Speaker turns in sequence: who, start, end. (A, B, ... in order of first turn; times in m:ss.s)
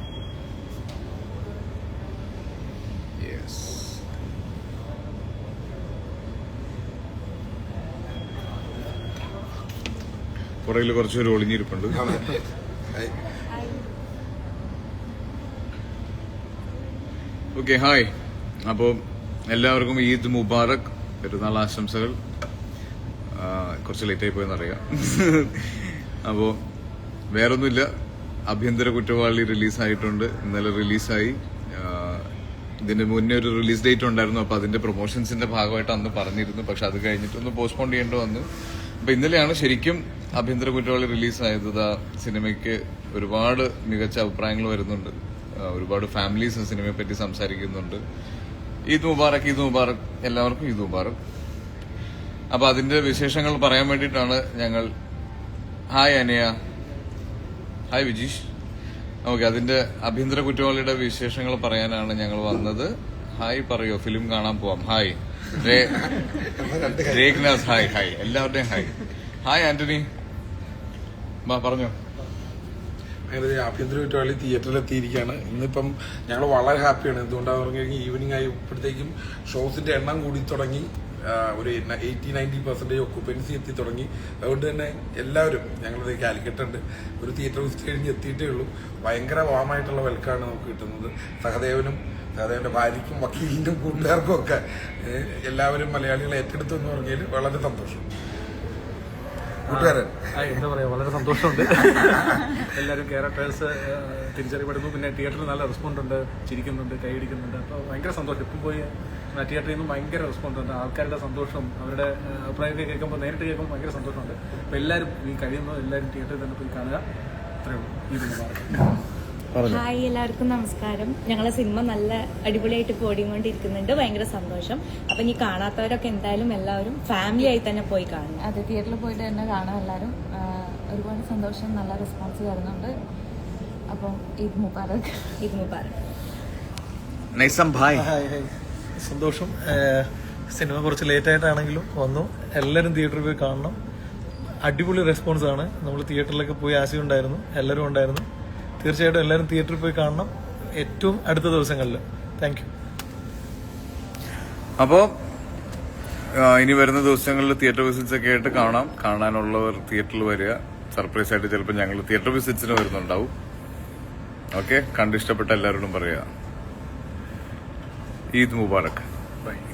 0:03.2-0:03.9 A
0:10.6-0:12.0 A
0:12.0-0:12.4 B
0:17.5-0:18.1 A
0:18.7-0:19.0 A
0:19.5-0:22.2 A
0:23.4-0:26.6 A
0:27.3-0:27.8 A
0:28.5-0:32.2 A
0:32.8-0:38.4 A
0:39.0-0:48.0 A
0:48.9-0:51.2 A
0:52.5-0:54.9 A
0:55.9-0:56.5 A
0:57.9-0:58.4 A
0:59.2-1:05.9 A
1:06.0-1:07.9 B
1:07.1-1:08.9 A
1:09.4-1:10.0 A
1:11.4-1:11.9 A
1:13.3-1:38.0 B
1:39.7-1:40.6 B
1:39.7-1:57.0 C
1:57.6-1:59.0 C
1:59.6-2:08.4 D
2:08.4-2:12.9 E
2:13.9-2:15.3 E
2:15.4-2:15.9 D
2:17.9-2:18.5 F
2:19.0-2:23.8 F
2:24.6-2:28.2 F
2:28.8-2:32.7 F
2:34.8-2:35.1 A
2:36.3-2:43.3 A
2:44.6-2:46.2 A
2:48.3-2:49.0 A